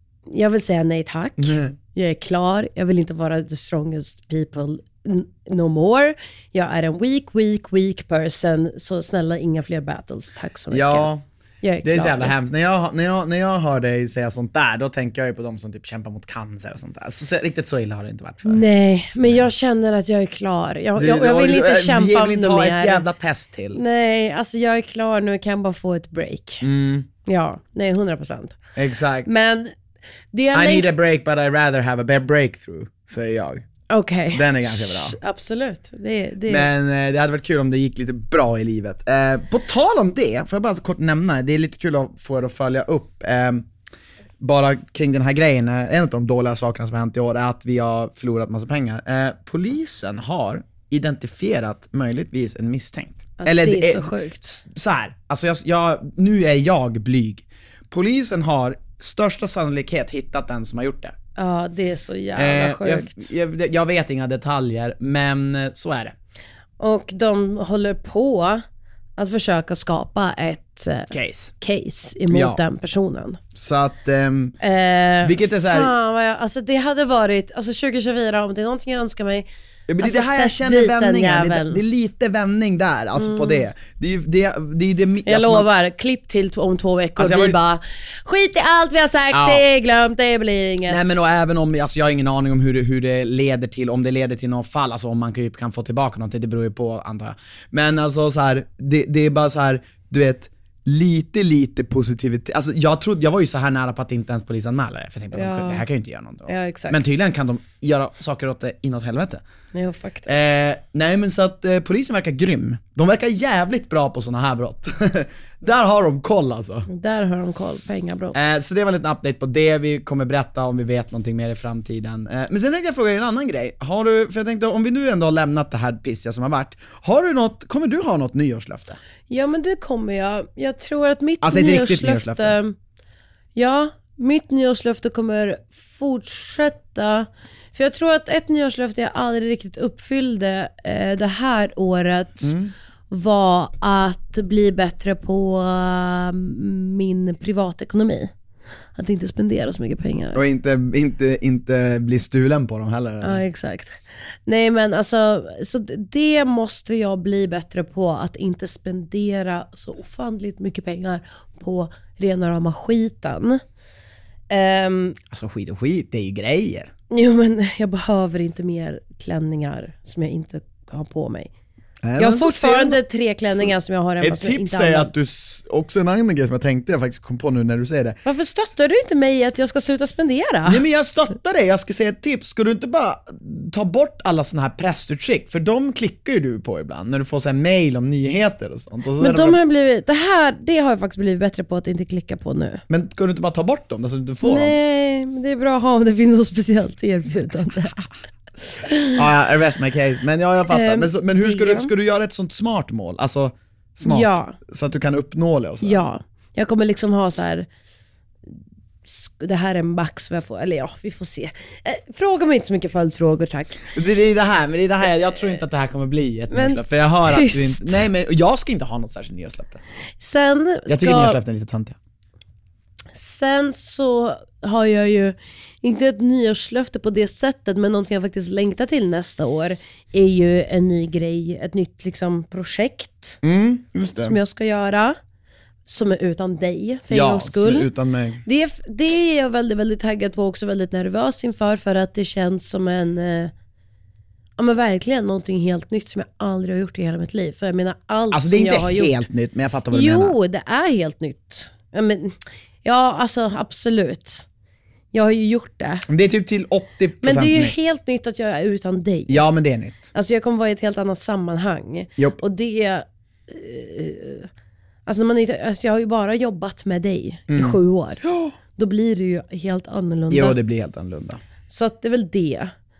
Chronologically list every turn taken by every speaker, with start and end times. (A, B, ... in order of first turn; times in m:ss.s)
0:00.3-0:12.3 A
0:01.4-0:01.8 B
0:10.7-0:11.2 B
0:11.8-0:18.6 B
0:18.4-0:23.0 A
0:19.2-0:19.5 B
0:21.0-0:23.8 B
0:23.7-0:26.6 A
0:26.6-0:27.1 B
0:27.2-0:28.6 A
0:28.8-0:29.4 B
0:29.2-0:29.7 A
0:30.3-0:30.9 A
0:30.5-0:33.6 B
0:33.9-0:36.7 A
0:34.3-0:35.2 B
0:36.4-0:43.7 B
0:44.4-1:01.1 B
0:53.4-0:54.6 A
1:01.4-1:03.3 A
1:02.4-1:06.1 B
1:06.8-1:08.6 A
1:09.2-1:13.4 A
1:11.1-1:11.5 B
1:12.3-1:12.6 B
1:13.5-1:14.6 B
1:14.6-1:19.5 A
1:15.2-1:15.9 B
1:19.9-1:25.7 B
1:20.0-1:21.8 A
1:23.1-1:23.6 A
1:25.2-1:31.1 A
1:27.2-1:27.6 B
1:29.3-1:29.6 B
1:30.9-1:49.4 B
1:45.3-1:45.8 A
1:46.5-1:47.0 A
1:49.7-1:50.4 A
1:50.3-1:56.9 B
1:56.9-1:58.4 A
1:58.3-2:09.0 B
2:09.3-2:12.7 A
2:11.4-2:12.6 B
2:13.5-2:22.5 A
2:22.4-2:22.7 B
2:23.1-2:28.3 A
2:29.0-2:30.4 A
2:30.3-2:33.4 B
2:33.2-2:43.6 A
2:44.5-2:45.2 A
2:45.3-2:46.9 B
2:47.1-2:51.5 A
2:52.0-2:58.2 B
2:52.2-2:55.2 A
2:58.2-3:00.8 A
3:00.6-3:09.6 B
3:09.2-3:12.8 A
3:12.9-3:14.7 B
3:14.4-3:18.1 A
3:18.8-3:19.2 A
3:19.1-3:26.1 B
3:20.7-3:21.9 A
3:24.0-3:24.6 A
3:25.8-3:27.7 A
3:29.1-3:33.8 A
3:33.9-3:39.8 B
3:36.5-3:38.0 A
3:40.2-3:41.4 A
3:40.9-3:42.0 B
3:43.1-3:53.4 A
3:53.4-3:54.4 B
3:54.2-3:55.2 A
3:55.9-3:57.9 A
3:57.1-3:58.4 B
3:58.4-4:03.5 A
4:04.6-4:09.2 A
4:08.3-4:10.4 B
4:09.9-4:14.4 A
4:15.1-4:16.0 A
4:16.1-4:17.8 B
4:17.2-4:19.4 A
4:19.3-4:20.1 B
4:20.1-4:24.5 A
4:25.0-4:28.2 A
4:27.5-4:28.5 B
4:28.8-4:30.6 A
4:30.3-4:31.4 B
4:31.7-4:32.7 A